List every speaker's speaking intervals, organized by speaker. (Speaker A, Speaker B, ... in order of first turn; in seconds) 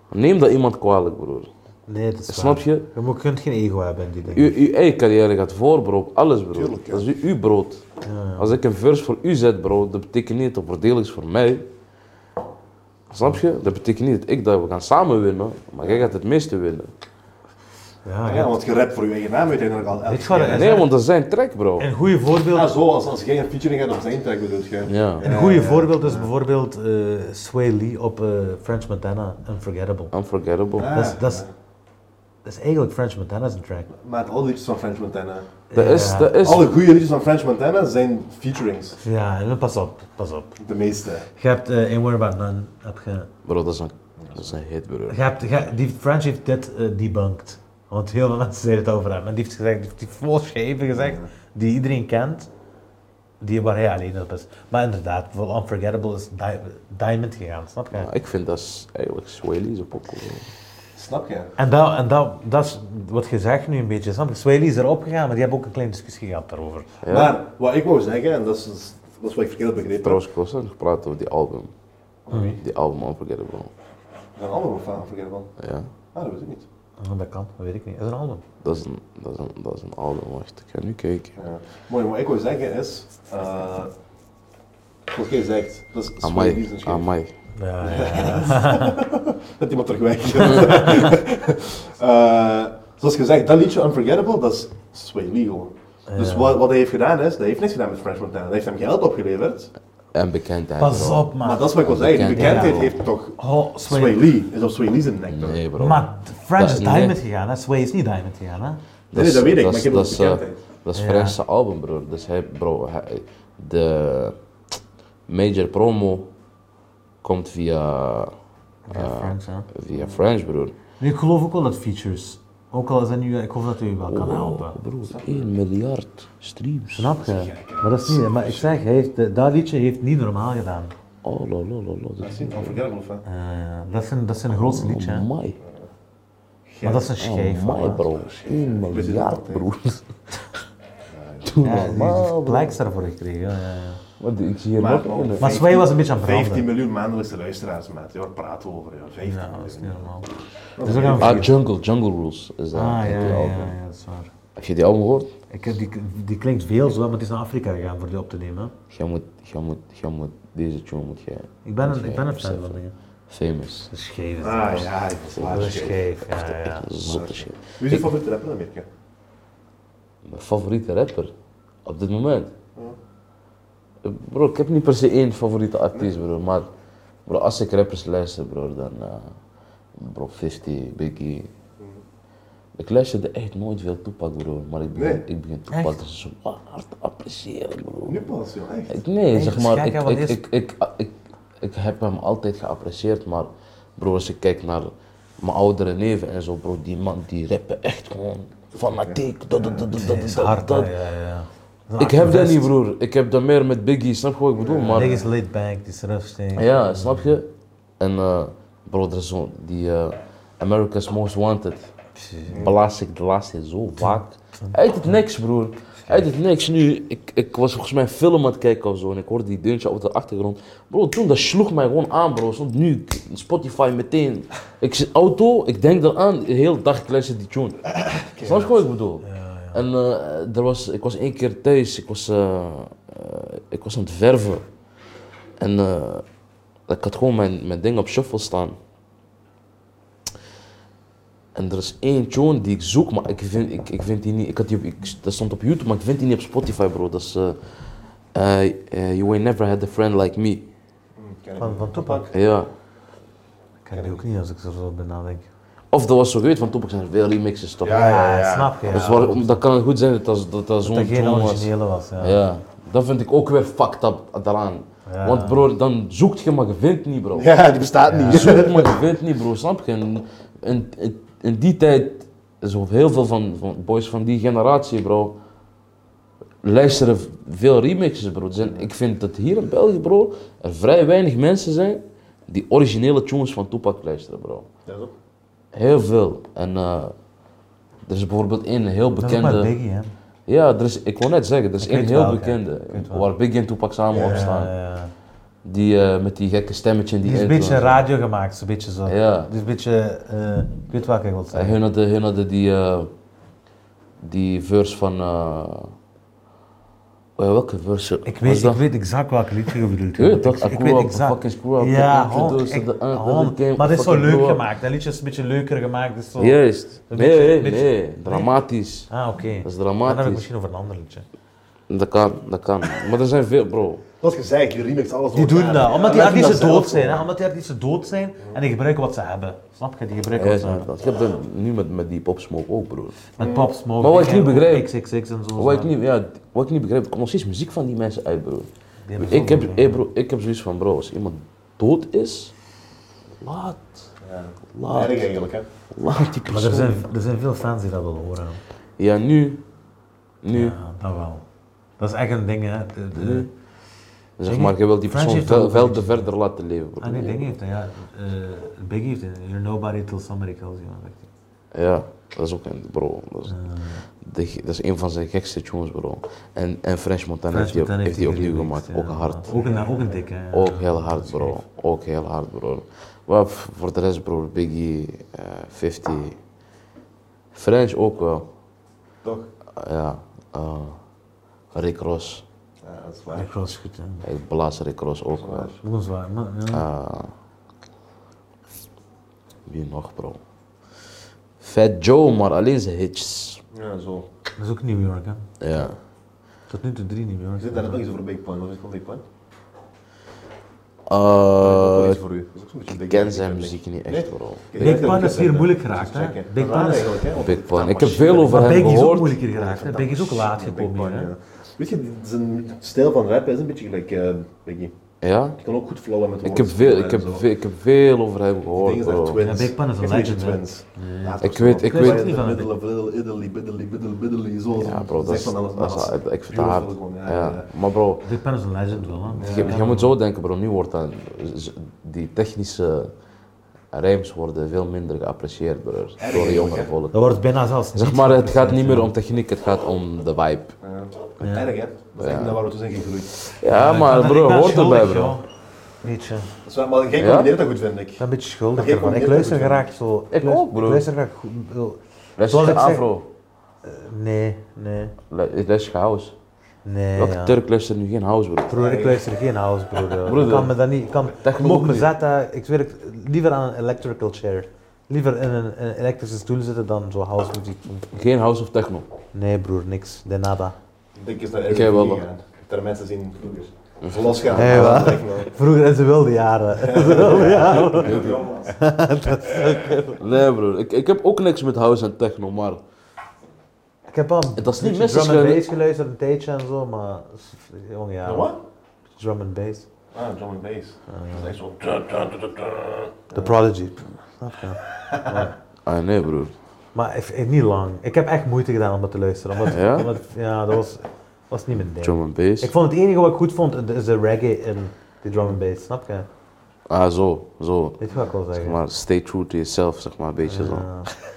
Speaker A: 0.1-1.5, 2.3-2.9, 4.3-7.8, 8.4-11.7, 13.1-16.9, 20.5-21.9, 24.9-25.3, 30.1-30.9, 35.7-36.7, 43.5-45.2, 57.9-60.5, 67.0-67.4, 70.0-71.7, 72.6-73.7, 75.6-75.9, 78.6-81.4, 86.2-87.3, 100.1-103.0, 105.3-106.0, 106.6-107.2, 109.1-114.4, 115.3-116.3, 117.2-118.3, 118.9-120.8, 124.1-127.5, 131.2-132.8, 134.5-135.6, 137.2-140.4, 141.4-142.8, 144.2-145.6, 151.1-153.8, 154.6-155.3, 158.9-163.9, 165.3-168.1, 170.2-171.3, 171.8-172.5, 174.0-176.7, 177.3-179.3, 180.0-181.5, 182.8-188.2, 188.9-200.9, 202.0-205.2, 206.6-207.5, 208.0-211.9, 212.6-234.7, 235.6-236.2, 236.9-238.8, 241.6-247.8, 248.3-250.7, 252.3-252.7, 255.9-258.3, 258.9-267.5, 268.3-275.4, 276.6-284.7, 285.7-287.1, 288.1-289.7, 290.5-294.7, 295.6-298.0, 299.1-299.5, 301.5-303.1, 304.2-305.9, 307.4-308.8, 310.2-314.6, 316.4-319.1, 319.6-320.5, 321.9-324.0, 330.3-333.2, 334.0-334.9, 335.6-342.5, 343.4-344.0, 344.7-345.3, 345.9-347.0, 349.0-349.6, 350.4-350.8, 353.1-353.5, 354.4-357.6, 361.7-369.5, 370.5-376.4, 377.5-378.5, 379.8-381.0, 381.7-382.4, 384.2-385.7, 386.7-387.3, 389.7-390.4, 391.6-393.6, 395.6-396.0, 401.1-402.2, 402.9-404.7, 407.3-409.4, 415.2-415.6, 416.4-419.4, 421.4-422.4, 424.8-428.3, 429.0-433.1, 433.9-437.3, 437.9-440.7, 442.2-442.6, 443.3-445.4, 447.2-447.6, 450.3-451.1, 452.4-453.3, 455.3-456.3, 457.2-458.7, 460.2-460.8, 461.4-462.1, 468.1-469.1, 471.7-472.2, 474.0-475.1, 478.0-478.5, 480.2-482.8, 484.6-485.7, 495.9-496.5, 499.7-500.1, 502.0-502.7, 506.9-508.0, 508.5-511.1
Speaker B: 1.9-4.6, 8.0-8.6, 18.1-18.5, 20.1-20.9, 21.8-22.8, 25.2-30.1, 30.9-31.4, 32.5-33.9, 35.7-36.4, 39.0-40.6, 41.4-43.3, 45.1-52.5, 53.4-58.1, 61.6-66.9, 77.0-78.4, 87.6-89.0, 90.5-91.1, 96.1-96.6, 100.8-102.8, 103.4-104.3, 105.8-108.8, 110.9-111.4, 118.9-119.7, 121.0-124.8, 127.0-130.9, 133.2-135.3, 136.8-138.1, 141.6-144.0, 145.4-146.7, 149.2-150.3, 150.8-151.5, 152.7-154.3, 155.5-158.8, 161.7-162.9, 163.9-166.9, 185.7-186.0, 189.3-190.4, 199.9-202.7, 204.9-207.3, 212.2-212.7, 214.0-215.2, 229.2-229.8, 251.6-252.3, 253.8-255.5, 257.9-259.6, 260.9-262.4, 265.1-265.6, 268.1-268.6, 289.2-290.1, 291.8-293.3, 294.1-295.1, 297.2-301.8, 308.3-318.5, 319.1-321.2, 325.3-330.9, 333.4-335.9, 339.1-340.0, 346.5-348.6, 350.5-351.4, 352.0-353.5, 354.4-356.3, 357.0-361.3, 363.5-364.0, 367.5-371.6, 383.4-384.2, 385.8-386.9, 394.6-395.5, 396.7-398.0, 404.8-407.2, 408.2-411.3, 419.4-422.7, 428.2-430.2, 437.1-439.1, 441.4-441.7, 443.6-445.4, 446.0-446.5, 448.2-453.1, 453.9-455.1, 456.9-457.6, 458.7-468.1, 469.3-470.8, 474.5-480.2, 484.1-488.5, 489.2-489.9, 491.1-491.6, 493.3-495.5, 496.9-506.3, 508.0-508.8, 510.5-511.1
Speaker C: 6.5-7.1, 15.8-16.1, 18.2-20.8, 22.5-26.3, 30.8-31.5, 33.9-35.5, 36.4-39.0, 40.6-41.3, 44.2-44.5, 51.0-51.3, 61.0-61.5, 67.0-70.2, 72.3-72.6, 74.4-75.5, 76.1-76.7, 81.4-83.9, 85.1-87.1, 87.8-99.7, 101.4-105.6, 109.1-110.6, 119.9-120.2, 125.0-125.5, 127.2-128.8, 132.2-133.2, 135.6-135.9, 136.7-137.1, 138.4-139.7, 141.1-141.7, 144.8-150.2, 150.8-151.5, 164.4-166.0, 167.0-168.9, 184.9-185.2, 188.0-189.0, 198.8-199.9, 204.6-205.3, 212.5-212.8, 228.0-228.8, 251.2-252.3, 253.9-254.2, 257.8-258.8, 267.4-268.9, 284.9-285.1, 294.1-294.5, 324.2-327.3, 333.4-333.7, 344.2-345.7, 369.5-370.2, 379.2-379.5, 382.8-383.5, 385.4-385.8, 393.7-394.3, 397.6-399.2, 401.6-414.9, 415.6-417.4, 418.8-427.7, 429.4-429.8, 436.2-436.9, 440.8-443.3, 446.6-448.2, 448.8-449.9, 458.7-459.2, 471.2-475.5, 476.8-478.9, 488.2-488.6, 490.1-493.5, 495.0-495.4